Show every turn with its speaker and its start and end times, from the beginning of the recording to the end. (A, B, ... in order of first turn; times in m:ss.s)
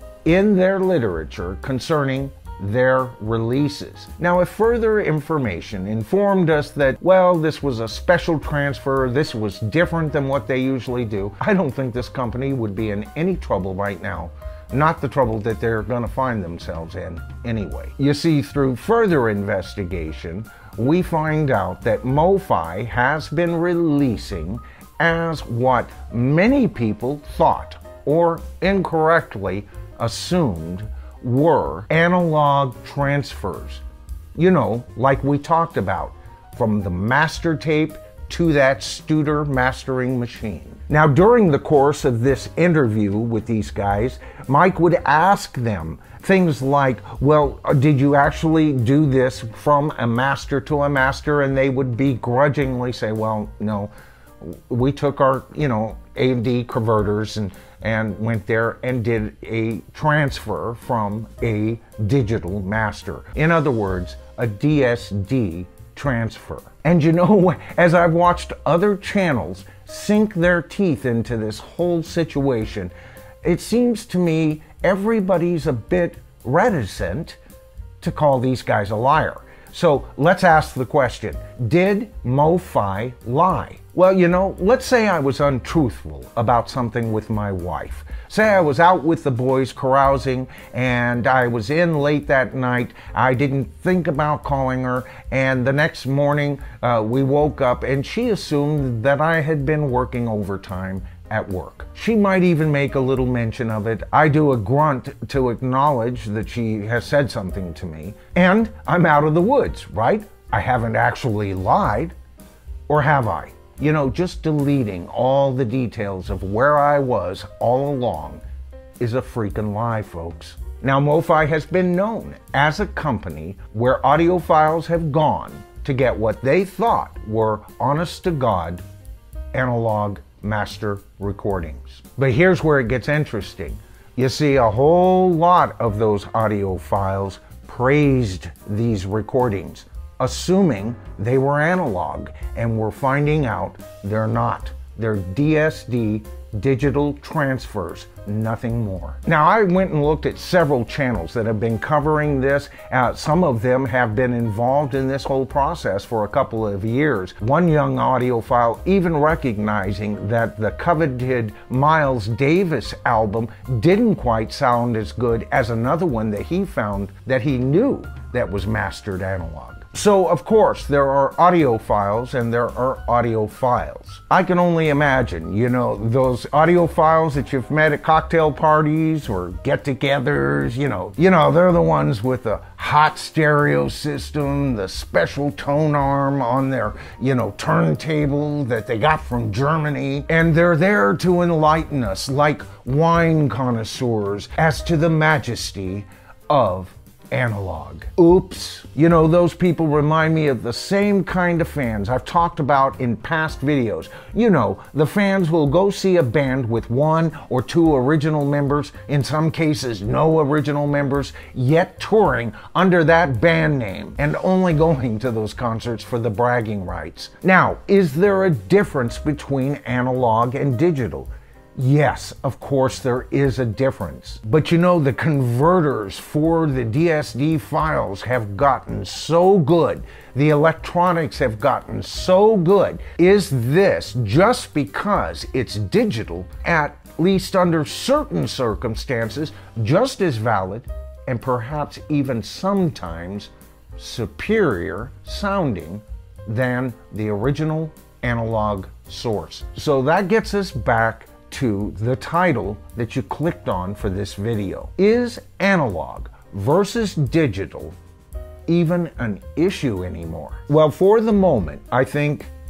0:00.2-0:33.8 A
0:34.4-1:12.9 A
1:13.4-1:17.4 A
1:18.0-1:52.1 A
1:52.9-1:58.4 A
1:59.0-2:08.8 A
2:09.5-4:17.9 A
4:18.7-4:22.5 A